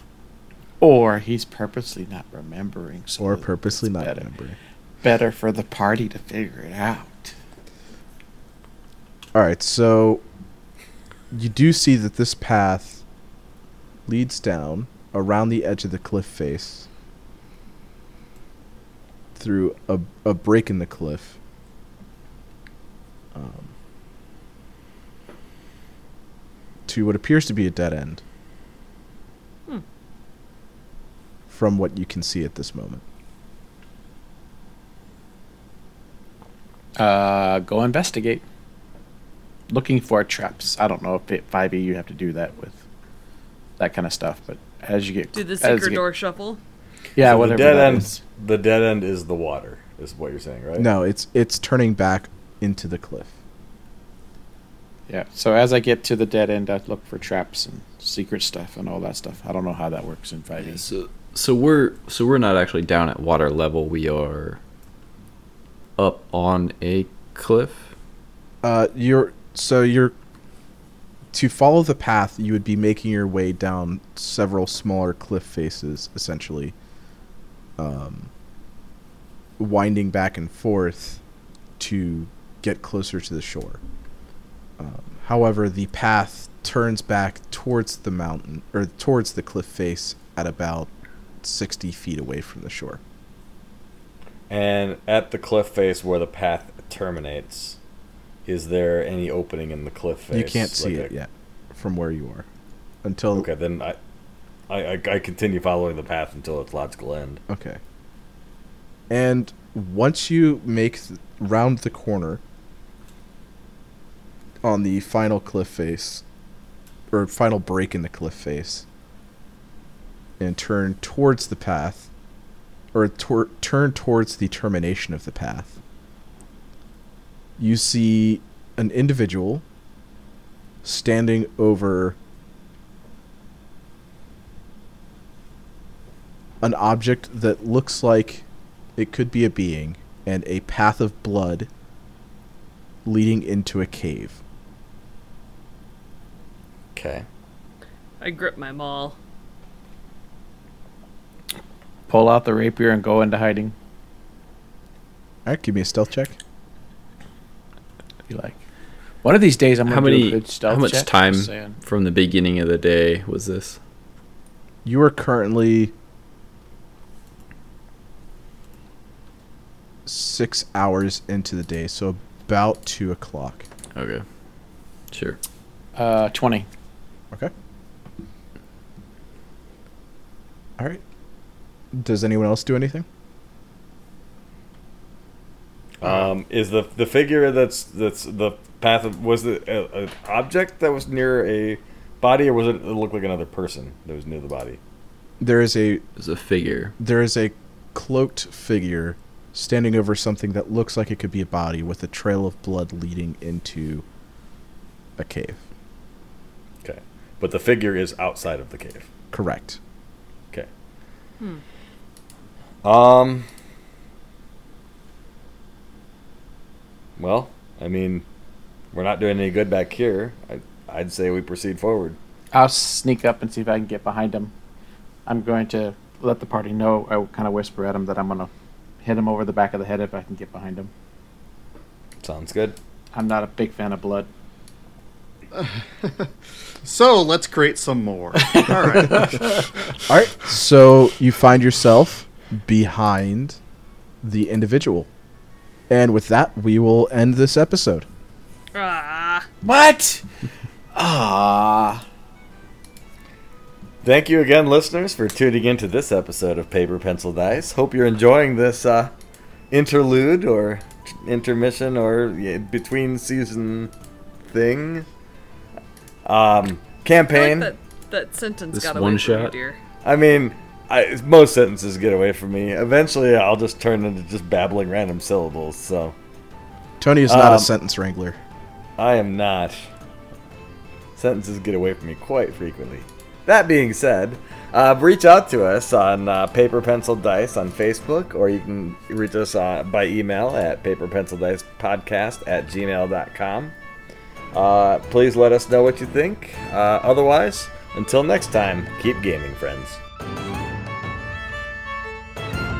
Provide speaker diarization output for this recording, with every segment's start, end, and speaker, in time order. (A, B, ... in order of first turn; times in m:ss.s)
0:00.8-0:04.2 A
0:03.2-0:04.6 B
0:05.0-0:07.3 A
0:09.3-0:10.2 B
0:11.3-0:13.0 B
0:14.1-0:16.9 B
0:19.4-0:21.4 B
0:23.3-0:23.7 B
0:26.9-0:28.2 B
0:31.5-0:33.0 B
0:37.0-0:38.4 A
0:39.7-0:42.8 A
0:43.8-0:46.0 A
0:45.3-0:46.6 C
0:47.2-0:48.2 A
0:47.2-0:50.9 D
0:50.8-0:53.3 B
0:55.1-1:00.8 A
1:00.6-1:04.6 E
1:06.0-1:07.9 E
1:08.6-1:10.1 B
1:11.3-1:16.7 B
1:17.8-1:18.3 B
1:19.6-1:21.2 B
1:21.8-1:23.8 B
1:24.8-1:30.9 B
1:31.4-1:33.0 B
1:34.5-1:37.8 D
1:38.4-1:41.1 D
1:40.3-1:42.4 B
1:43.0-1:43.5 B
1:43.3-1:44.0 D
1:44.7-1:47.4 D
1:47.5-1:47.8 B
1:49.1-1:52.4 B
1:54.6-1:56.2 B
1:57.1-1:58.8 B
2:00.4-2:02.1 B
2:02.9-2:05.8 B
2:07.6-2:09.6 B
2:10.8-2:12.2 B
2:16.6-2:21.7 B
2:23.0-2:24.4 B
2:26.9-2:27.2 D
2:28.2-2:29.2 C
2:32.1-2:33.7 A
2:35.4-2:36.4 B
2:38.3-2:38.6 A
2:39.2-2:41.8 A
2:39.8-2:43.8 E
2:44.8-2:45.9 B
2:50.0-2:53.7 B
2:53.9-2:54.2 E
2:55.1-2:55.4 E
2:56.0-2:56.7 A
3:01.9-3:03.0 B
3:06.0-3:14.8 D
3:15.4-3:16.0 B
3:16.2-3:16.9 E
3:17.0-3:24.0 B
3:25.2-3:25.6 B
3:26.8-3:29.1 D
3:29.3-3:29.8 B
3:32.8-3:33.5 D
3:37.2-3:38.2 D
3:38.9-3:42.2 D
3:42.5-3:44.5 A
3:45.2-3:48.5 A
3:49.0-3:50.9 A
3:52.2-3:52.8 D
3:53.1-3:54.3 A
3:55.6-3:56.2 F
3:56.8-3:59.6 F
3:58.4-3:59.4 A
4:00.1-4:03.6 B
4:04.2-4:05.1 B
4:05.9-4:08.0 B
4:08.7-4:09.5 C
4:09.6-4:10.2 A
4:10.9-4:12.0 A
4:14.0-4:19.1 D
4:19.7-4:23.9 D
4:24.5-4:25.1 D
4:26.2-4:27.7 D
4:27.3-4:29.8 C
4:28.7-4:29.5 E
4:30.0-4:36.1 D
4:37.0-4:38.4 B
4:37.3-4:37.7 D
4:39.0-4:39.8 D
4:41.2-4:53.7 D
4:54.5-5:00.0 D